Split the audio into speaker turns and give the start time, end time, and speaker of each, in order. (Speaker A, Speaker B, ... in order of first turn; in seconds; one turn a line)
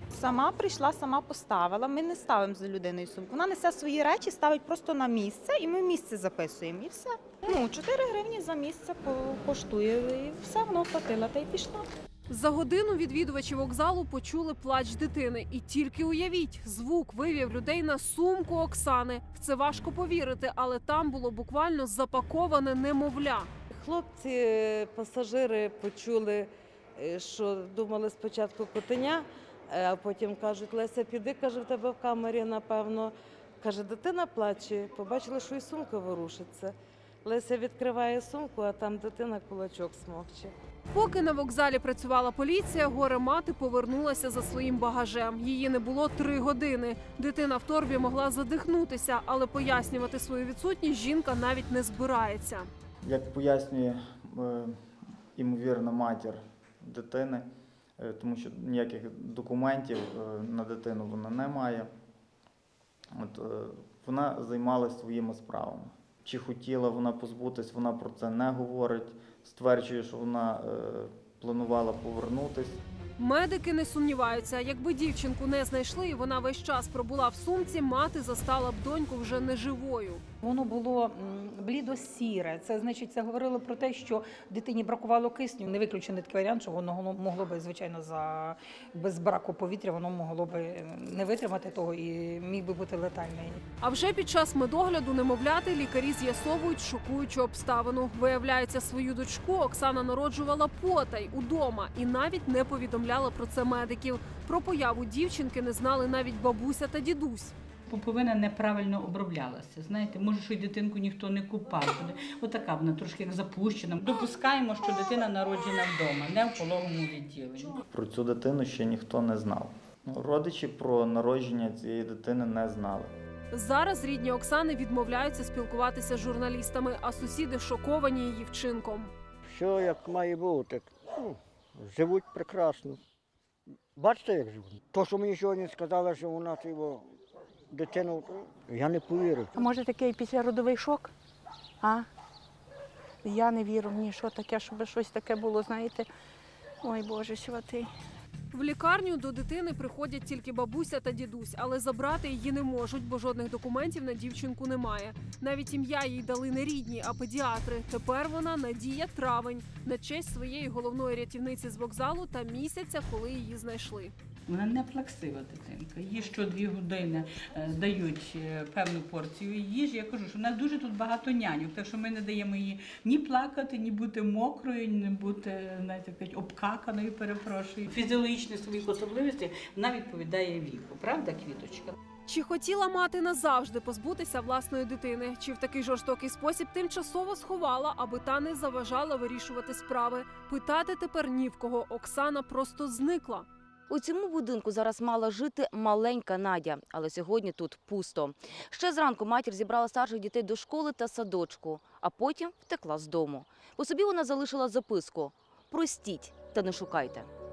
Speaker A: 0.1-11.9
Speaker B: 12.3-23.5
Speaker C: 23.7-40.5
Speaker B: 40.9-52.7
Speaker D: 53.0-54.8
Speaker D: 55.3-57.5
Speaker D: 58.0-61.9
Speaker D: 63.1-72.8
Speaker B: 73.2-80.2
Speaker E: 80.4-93.6
Speaker B: 93.8-107.5
Speaker F: 107.9-117.8
Speaker D: 117.9-123.1
Speaker B: 123.5-129.1
Speaker G: 129.4-133.0
Speaker G: 133.9-137.1
Speaker G: 137.7-139.5
Speaker H: 139.5-141.1
Speaker H: 141.8-142.1
Speaker H: 143.2-146.1
Speaker H: 146.8-147.9
Speaker B: 148.5-164.1
Speaker F: 164.5-181.9
Speaker B: 182.3-193.5
Speaker I: 193.9-207.3